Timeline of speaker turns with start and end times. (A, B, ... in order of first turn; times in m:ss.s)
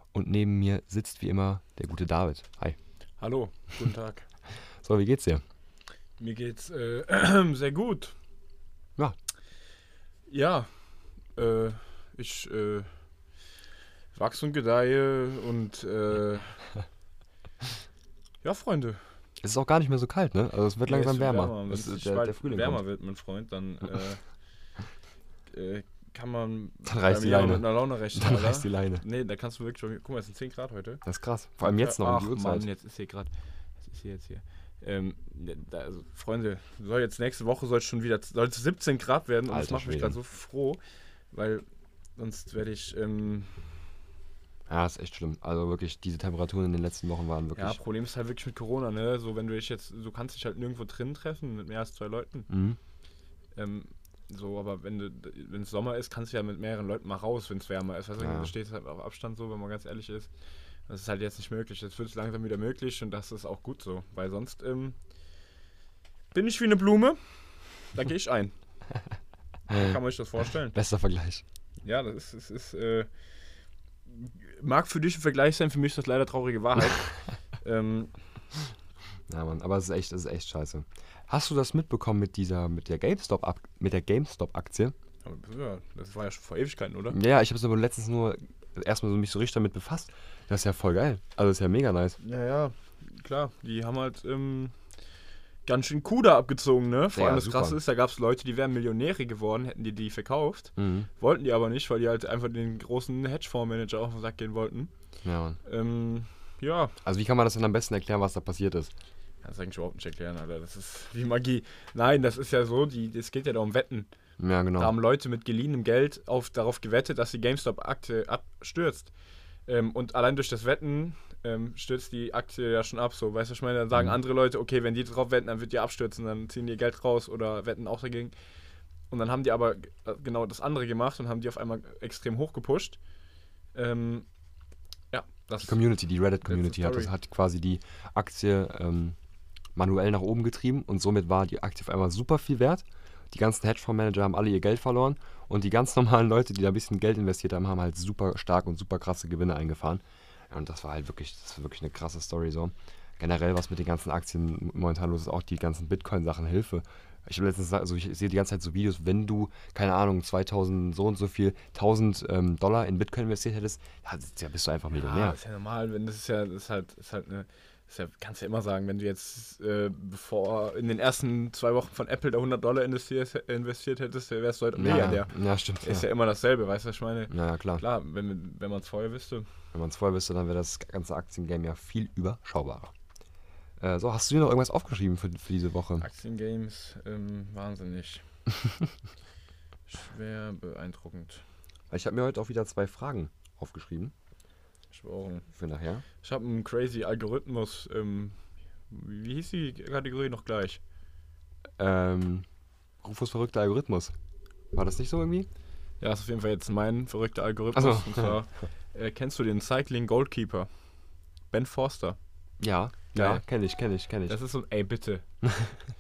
0:00.1-0:02.8 A
0:03.2-0:04.3 B
0:04.8-0:05.4 A
0:06.2-0:08.2 B
0:10.3-0:10.7 B
0:11.4-0:12.9 B
0:14.2-0:16.6 B
0:18.4-0:19.0 B
0:19.4-0:22.8 A
0:20.9-0:24.2 B
0:25.5-0:31.0 B
0:26.8-0:29.0 A
0:31.0-0:32.7 A
0:31.6-0:33.3 B
0:33.8-0:40.8 B
0:39.5-0:40.2 A
0:41.3-0:41.6 B
0:42.2-0:43.6 B
0:44.7-0:47.8 A
0:47.6-0:52.5 B
0:52.5-0:52.8 A
0:53.6-1:00.3 B
0:58.2-0:58.5 A
1:00.9-1:05.0 B
1:06.3-1:08.5 B
1:09.7-1:10.0 A
1:09.7-1:10.8 B
1:10.7-1:11.4 A
1:11.8-1:13.1 B
1:14.2-1:18.1 B
1:19.3-1:24.9 A
1:25.2-1:27.2 B
1:27.1-1:32.2 A
1:32.2-1:34.7 B
1:35.7-1:44.9 B
1:37.1-1:37.8 A
1:40.8-1:41.1 A
1:45.2-1:45.6 A
1:45.6-1:47.0 B
1:47.0-1:48.9 A
1:49.4-1:54.1 B
1:54.4-1:55.0 A
1:54.8-1:59.1 B
1:59.7-2:08.3 B
2:09.1-2:13.0 B
2:13.7-2:14.3 B
2:15.1-2:15.8 B
2:15.6-2:19.2 A
2:16.4-2:17.1 B
2:19.8-2:45.4 A
2:44.9-2:59.5 B
2:54.8-2:56.1 A
2:57.3-2:57.8 A
2:59.7-3:02.9 A
3:03.8-3:06.1 A
3:06.0-3:08.2 B
3:09.9-3:11.4 B
3:11.9-3:14.1 A
3:14.9-3:15.5 B
3:15.6-3:16.0 A
3:16.2-3:18.4 B
3:18.9-3:20.8 B
3:21.8-3:22.4 A
3:23.0-3:24.1 A
3:24.7-3:25.5 A
3:26.0-3:30.7 B
3:27.8-3:28.4 A
3:31.5-3:32.2 B
3:32.6-3:34.4 A
3:33.1-3:33.4 B
3:34.3-3:35.2 B
3:35.4-3:35.7 A